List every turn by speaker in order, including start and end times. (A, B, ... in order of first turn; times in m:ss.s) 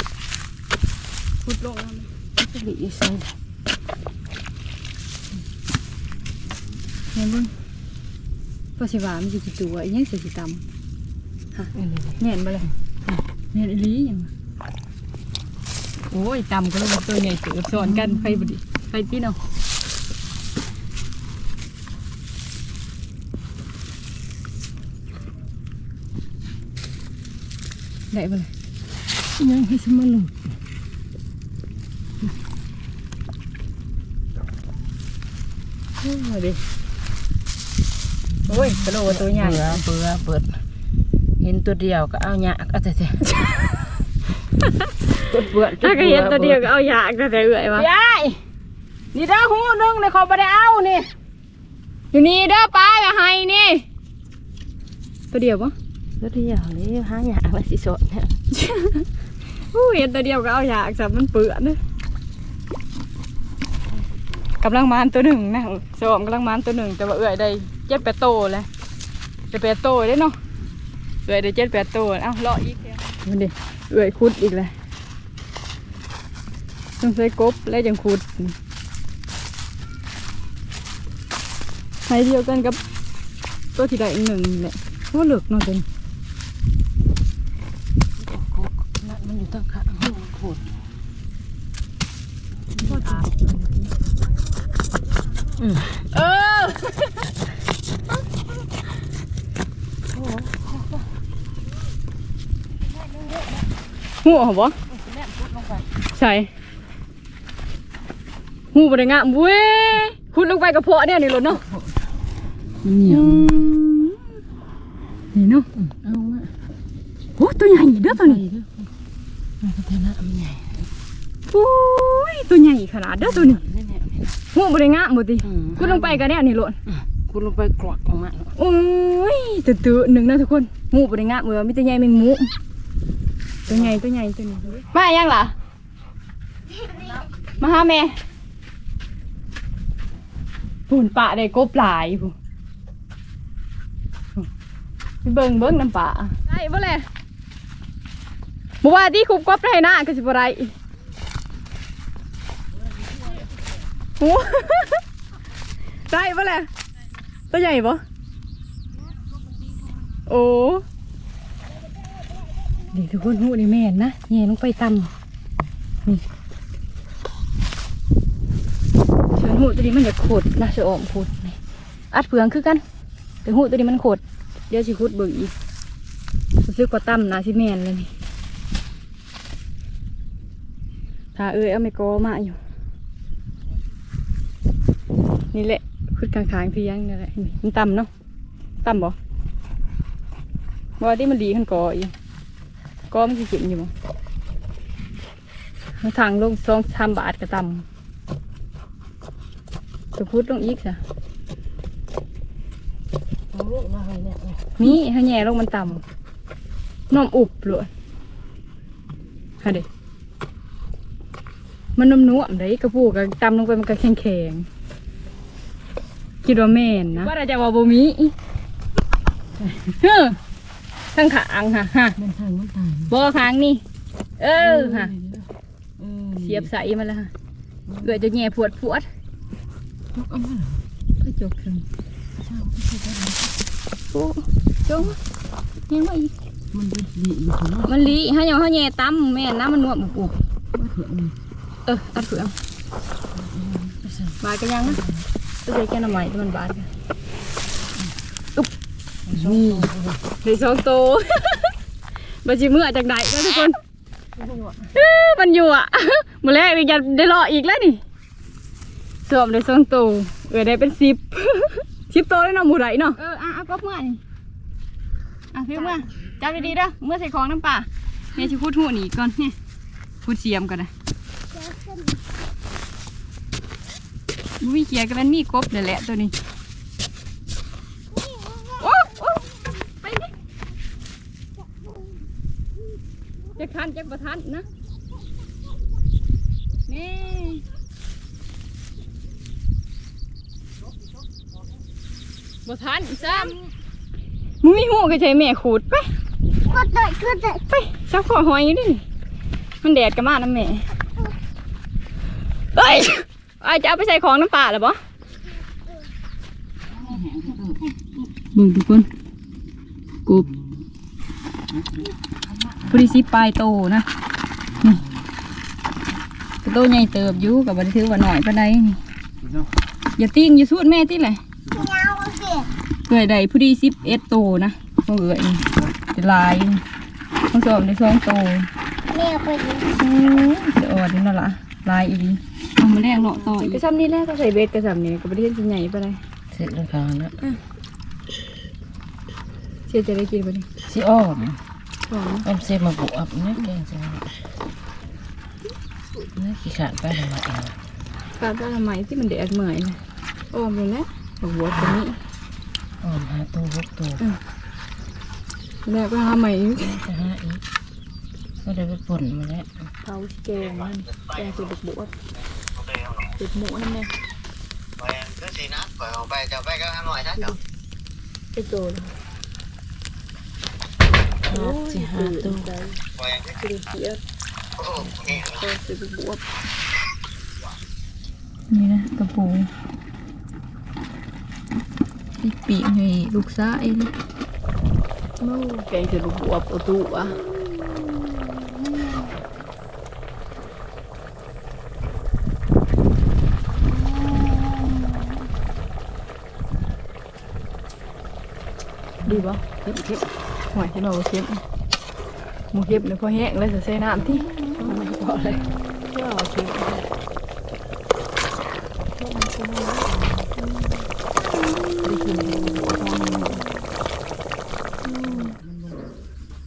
0:01.4-0:02.1 A
0:02.4-0:03.3 B
0:07.1-0:07.5 A
0:08.8-0:10.6 A
0:11.5-0:12.7 A
0:11.7-0:12.2 B
0:13.5-0:14.3 A
0:16.1-0:19.4 A
0:17.8-0:18.5 B
0:28.1-0:28.5 A
0:29.4-0:30.5 B
0:36.0-0:36.6 A
0:38.3-0:40.6 B
0:38.5-0:39.8 A
0:41.4-0:43.2 B
0:45.2-0:46.7 B
0:45.8-0:47.9 A
0:47.7-0:48.4 B
0:49.1-0:51.1 B
0:52.1-0:53.8 A
0:55.3-0:55.7 A
0:56.2-0:58.4 B
0:58.5-0:59.0 A
0:59.7-1:01.8 A
1:04.6-1:08.7 A
1:09.5-1:10.4 A
1:11.2-1:14.7 A
1:17.0-1:18.5 A
1:22.1-1:22.8 A
1:23.8-1:25.8 A
1:28.2-1:30.6 B
1:32.8-1:33.9 A
1:32.8-1:33.2 B
1:35.6-1:36.1 B
1:36.1-1:37.2 A
1:40.1-1:41.0 B
1:43.1-1:43.6 B
1:44.2-1:44.8 A
1:44.9-1:45.8 B
1:46.1-1:46.5 A
1:48.7-1:51.6 A
1:51.6-1:52.0 B
1:52.8-1:54.2 A
1:53.0-1:53.7 B
1:55.3-1:55.7 A
1:55.8-1:56.5 B
1:57.4-1:58.4 A
1:58.0-1:58.9 B
1:59.6-2:00.9 B
2:01.5-2:03.6 A
2:03.2-2:04.3 B
2:04.5-2:06.8 A
2:05.4-2:06.2 B
2:06.9-2:08.5 B
2:08.6-2:12.5 A
2:13.7-2:14.0 B
2:13.7-2:15.5 A
2:17.6-2:18.1 A
2:20.9-2:22.3 A
2:25.2-2:27.0 A
2:28.8-2:30.7 A
2:34.2-2:35.0 A
2:36.1-2:36.7 A
2:37.5-2:38.0 A
2:40.2-2:40.8 A
2:42.9-2:45.1 A
2:49.3-2:51.6 A
2:52.1-2:52.8 A
2:53.4-2:55.5 A
2:56.6-2:58.1 A
3:01.3-3:02.6 A
3:05.5-3:08.1 A
3:08.8-3:09.1 A
3:11.0-3:12.1 A
3:13.1-3:13.9 A
3:16.0-3:17.8 A
3:20.2-3:21.0 A
3:23.5-3:25.0 B
3:24.8-3:26.0 A
3:27.1-3:27.9 A
3:32.0-3:34.7 A
3:36.4-3:38.3 A
3:39.8-3:40.4 A
3:41.1-3:42.2 A
3:42.2-3:43.1 B
3:43.1-3:43.8 A
3:44.4-3:45.1 A
3:44.6-3:46.7 B
3:46.4-3:47.3 A
3:47.9-3:48.3 B
3:48.0-3:49.1 A
3:50.1-3:50.8 B
3:51.2-3:51.8 A
3:52.4-3:53.6 B
3:54.1-3:55.2 A
3:55.9-3:56.3 A
3:56.7-3:58.2 B
3:57.8-4:00.4 A
4:00.7-4:01.3 B
4:01.8-4:02.5 A
4:03.3-4:05.2 B
4:04.4-4:05.0 A
4:05.6-4:06.9 A
4:09.3-4:10.2 B
4:09.3-4:09.9 A
4:10.4-4:11.7 A
4:12.4-4:13.8 A
4:14.4-4:14.9 B
4:14.9-4:18.0 A
4:19.2-4:24.2 A
4:25.5-4:29.6 A
4:30.2-4:30.9 A
4:31.5-4:32.2 C
4:34.6-4:36.3 A
4:38.1-4:39.0 C
4:38.8-4:39.4 A
4:40.0-4:40.3 A
4:43.6-4:44.6 A
4:46.9-4:47.6 A
4:52.6-4:53.6 A
4:54.6-4:56.1 A
4:56.6-4:57.6 C
4:57.7-4:59.0 A
4:59.8-5:00.8 A
5:02.7-5:05.0 A
5:06.9-5:07.9 B
5:08.5-5:09.1 A
5:10.3-5:10.8 B
5:11.7-5:13.1 B
5:12.9-5:14.0 A
5:14.7-5:15.3 B
5:16.6-5:19.0 A
5:19.4-5:19.7 B
5:20.2-5:21.4 A
5:21.7-5:22.7 C
5:23.1-5:26.8 A
5:27.5-5:28.7 A
5:29.1-5:30.0 C
5:29.9-5:36.2 A
5:33.4-5:33.8 B
5:36.5-5:37.3 B
5:39.9-5:40.7 A
5:40.8-5:41.6 B
5:42.1-5:42.5 A
5:42.4-5:44.3 B
5:46.2-5:47.8 B
5:48.4-5:50.0 A
5:50.5-5:52.2 A
5:51.7-5:52.0 B
5:53.0-5:54.2 B
5:55.8-5:57.0 A
5:56.8-5:57.6 B
5:58.6-5:59.9 B
6:00.0-6:02.1 A
6:00.6-6:01.6 D
6:02.7-6:03.4 D
6:03.4-6:04.1 A
6:05.0-6:07.6 D
6:08.6-6:09.1 A
6:11.5-6:12.7 B
6:11.5-6:13.0 A
6:13.2-6:13.6 D
6:13.6-6:14.2 A
6:14.8-6:15.6 D
6:15.0-6:15.4 B
6:15.5-6:16.4 A
6:18.7-6:19.7 A
6:22.4-6:24.1 A
6:25.4-6:27.4 A
6:39.2-6:40.3 B
6:39.2-6:39.6 A
6:40.7-6:41.6 A
6:42.7-6:44.5 A
6:44.7-6:47.0 B
6:49.2-6:50.5 B
6:52.0-6:53.6 B
6:55.1-6:56.1 B
6:55.2-6:55.5 A